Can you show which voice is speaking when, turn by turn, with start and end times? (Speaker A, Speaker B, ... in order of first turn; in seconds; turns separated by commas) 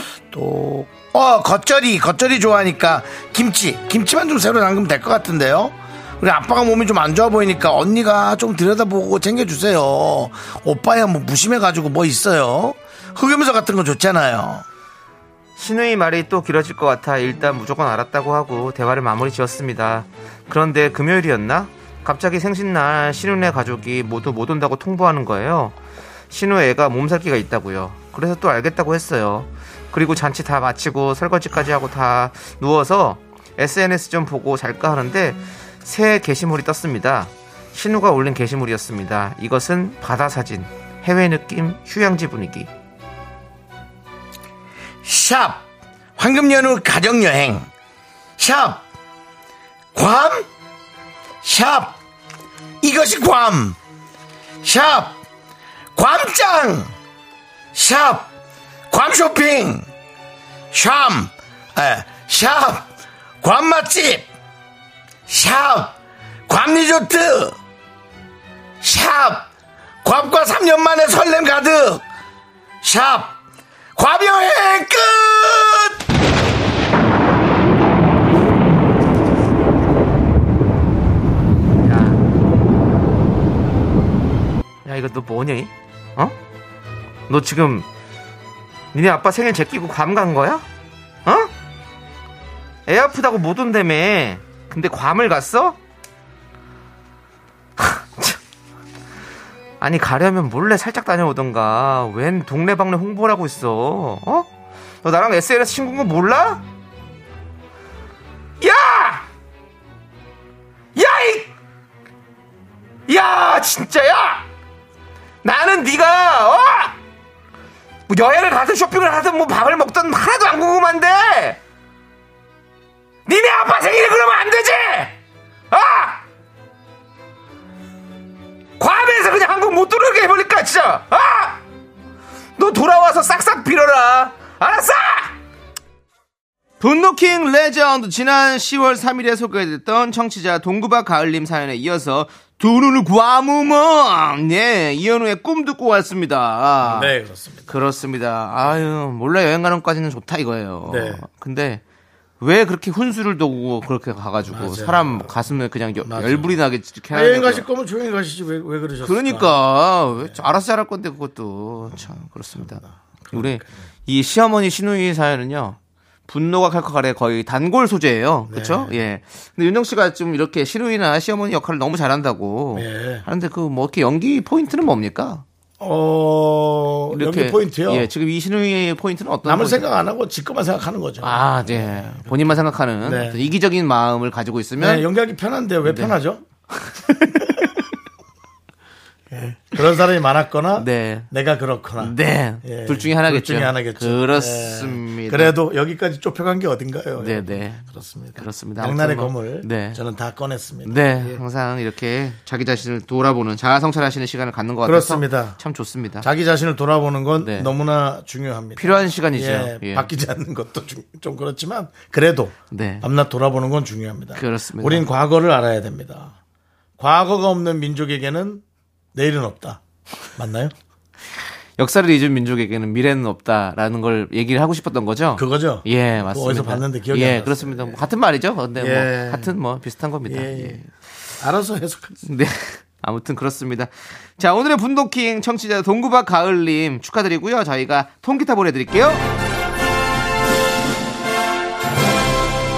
Speaker A: 0.3-14.6, Speaker B: 15.6-25.7, Speaker B: 26.3-42.7, Speaker A: 45.0-45.6, Speaker A: 46.2-47.7, Speaker A: 48.4-48.8, Speaker A: 49.9-50.5, Speaker A: 51.4-52.0, Speaker A: 52.8-53.8, Speaker A: 54.6-55.2, Speaker A: 55.9-56.9, Speaker A: 57.7-58.3, Speaker A: 58.9-59.9, Speaker A: 60.7-62.9, Speaker A: 63.4-64.2, Speaker A: 65.3-65.9, Speaker A: 66.5-67.6, Speaker A: 68.8-69.5, Speaker A: 70.0-72.0, Speaker A: 72.8-73.4, Speaker A: 74.0-76.0, Speaker B: 81.8-82.2, Speaker B: 84.8-86.3, Speaker B: 87.3-87.8, Speaker B: 88.9-90.6, Speaker B: 91.2-91.5, Speaker B: 92.9-95.8, Speaker B: 97.8-98.4, Speaker B: 99.8-104.5, Speaker B: 105.0-106.6, Speaker B: 108.6-109.2, Speaker B: 110.9-111.5, Speaker B: 113.1-114.4, Speaker B: 115.4-117.0, Speaker B: 118.1-121.6, Speaker B: 123.2-125.1, Speaker B: 125.7-126.2, Speaker B: 128.8-131.6, Speaker B: 132.6-135.3, Speaker B: 136.8-147.1, Speaker A: 146.8-147.7, Speaker B: 147.7-151.8, Speaker A: 150.8-151.2, Speaker B: 152.4-157.7, Speaker A: 154.5-155.3, Speaker A: 156.0-156.5, Speaker A: 157.1-159.5, Speaker B: 159.0-165.8, Speaker A: 162.8-163.7, Speaker B: 166.3-175.4, Speaker A: 168.5-168.9, Speaker A: 172.7-173.2, Speaker A: 175.8-178.1, Speaker B: 177.1-179.9, Speaker A: 179.4-182.3, Speaker B: 181.2-185.1, Speaker A: 183.0-183.4, Speaker A: 184.8-186.4, Speaker B: 185.8-186.1, Speaker B: 186.7-187.6, Speaker A: 189.3-201.4, Speaker B: 190.7-191.3, Speaker B: 192.0-195.6, Speaker B: 197.2-200.0, Speaker B: 200.8-206.2, Speaker A: 204.8-205.6, Speaker A: 206.2-216.3, Speaker B: 207.4-207.7, Speaker B: 208.8-210.1, Speaker B: 212.7-213.1, Speaker B: 214.3-215.1, Speaker A: 217.0-218.6, Speaker A: 219.1-219.8, Speaker A: 220.3-220.7, Speaker B: 221.8-230.9, Speaker A: 225.3-228.0, Speaker A: 228.8-229.5, Speaker A: 230.2-230.8, Speaker A: 231.4-232.2, Speaker B: 232.2-239.2